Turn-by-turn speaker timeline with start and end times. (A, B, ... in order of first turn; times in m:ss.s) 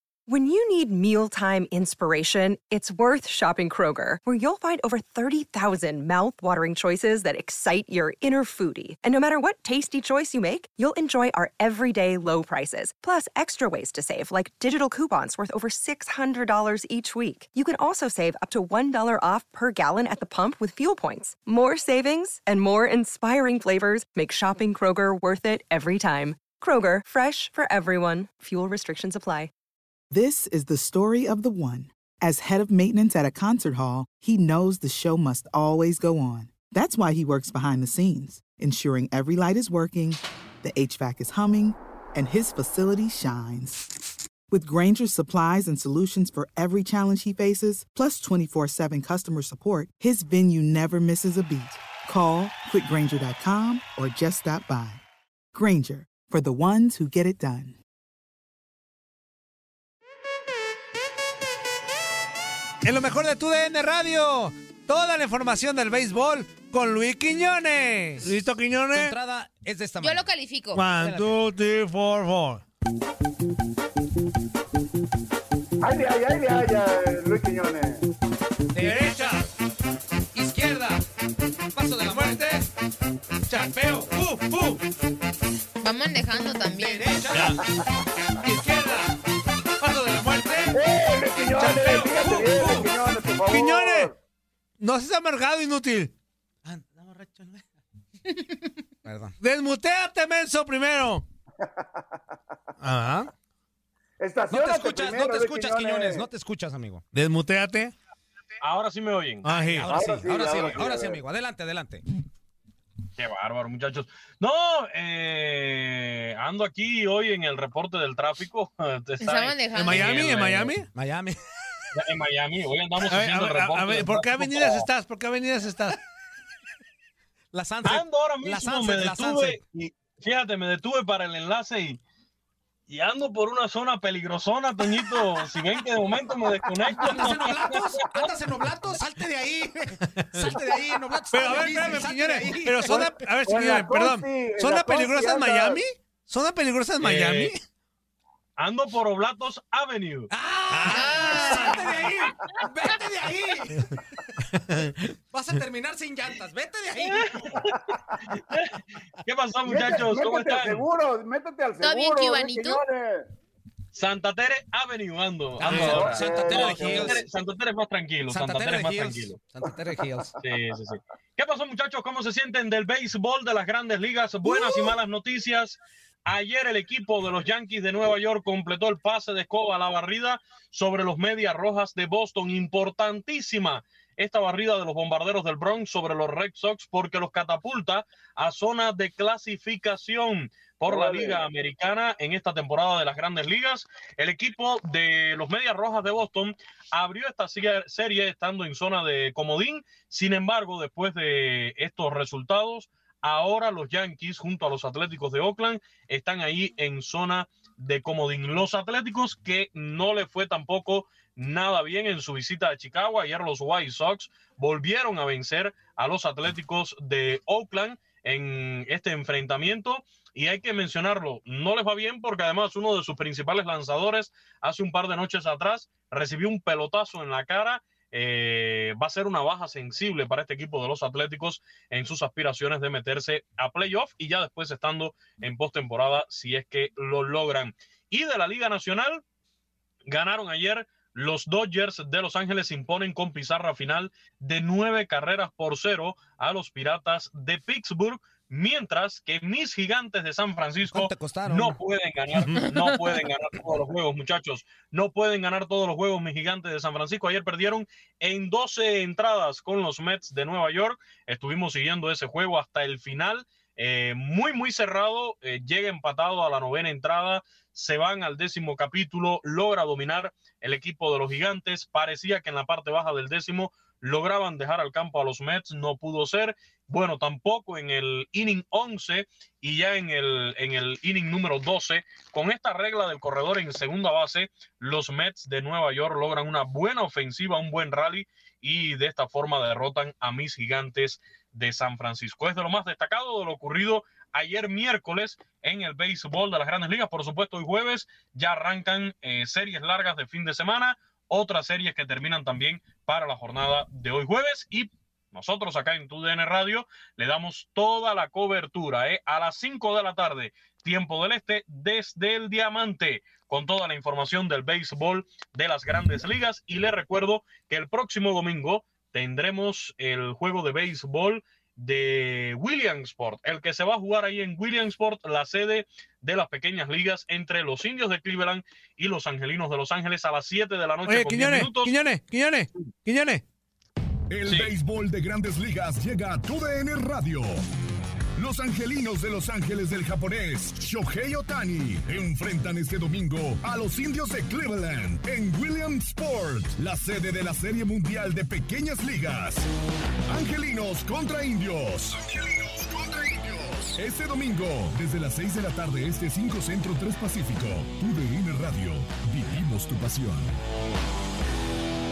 0:00.3-0:29.5 A
0:30.1-0:43.8 B
0:44.5-0:55.0 B
0:55.5-0:57.8 B
1:02.8-1:09.2 C
1:08.9-1:10.3 D
1:10.0-1:10.8 E
1:10.7-1:12.6 C
1:10.9-1:11.4 D
1:15.8-1:18.1 F
1:18.7-1:19.1 D
1:18.8-1:19.5 C
1:20.3-1:21.0 D
1:21.7-1:22.7 D
1:23.5-1:24.8 C
1:23.6-1:24.2 D
1:25.8-1:27.1 E
1:26.4-1:27.5 D
1:27.3-1:27.6 C
1:28.4-1:29.1 C
1:29.8-1:30.8 C
1:30.1-1:30.7 D
1:30.7-1:34.1 F
1:31.4-1:32.9 D
1:31.6-1:32.9 C
1:33.5-1:34.1 C
1:34.8-1:36.1 C
1:36.6-1:37.6 D
1:39.0-1:39.4 D
1:39.4-1:41.2 C
1:42.8-1:43.3 C
1:44.2-1:46.3 F
1:44.5-1:47.0 D
1:47.1-1:47.9 C
1:48.6-1:49.7 G
1:49.5-1:50.0 C
1:49.5-1:52.0 D
1:49.9-1:51.2 F
1:53.2-2:00.7 G
1:59.2-2:00.0 E
1:59.8-2:00.9 C
2:00.9-2:01.4 D
2:01.9-2:04.9 G
2:03.0-2:06.0 C
2:07.5-2:09.6 D
2:07.8-2:12.0 G
2:12.9-2:18.3 G
2:16.9-2:23.3 D
2:20.1-2:20.6 C
2:21.3-2:27.6 C
2:22.9-2:25.8 F
2:27.0-2:27.5 G
2:28.6-2:30.3 G
2:30.3-2:33.9 D
2:30.7-2:31.8 C
2:31.7-2:32.1 G
2:35.1-2:37.5 D
2:37.0-2:40.9 G
2:39.7-2:43.3 F
2:41.8-2:42.8 E
2:43.9-2:49.4 G
2:45.6-2:47.2 D
2:45.8-2:47.1 F
2:48.3-2:50.3 D
2:50.4-3:59.2 G
3:10.9-3:11.4 F
4:00.1-5:32.0 G
4:10.9-4:11.8 D
5:31.1-5:33.4 C
5:34.3-5:37.6 H
5:34.5-5:34.7 G
5:38.4-5:49.7 H
5:50.3-6:00.5 H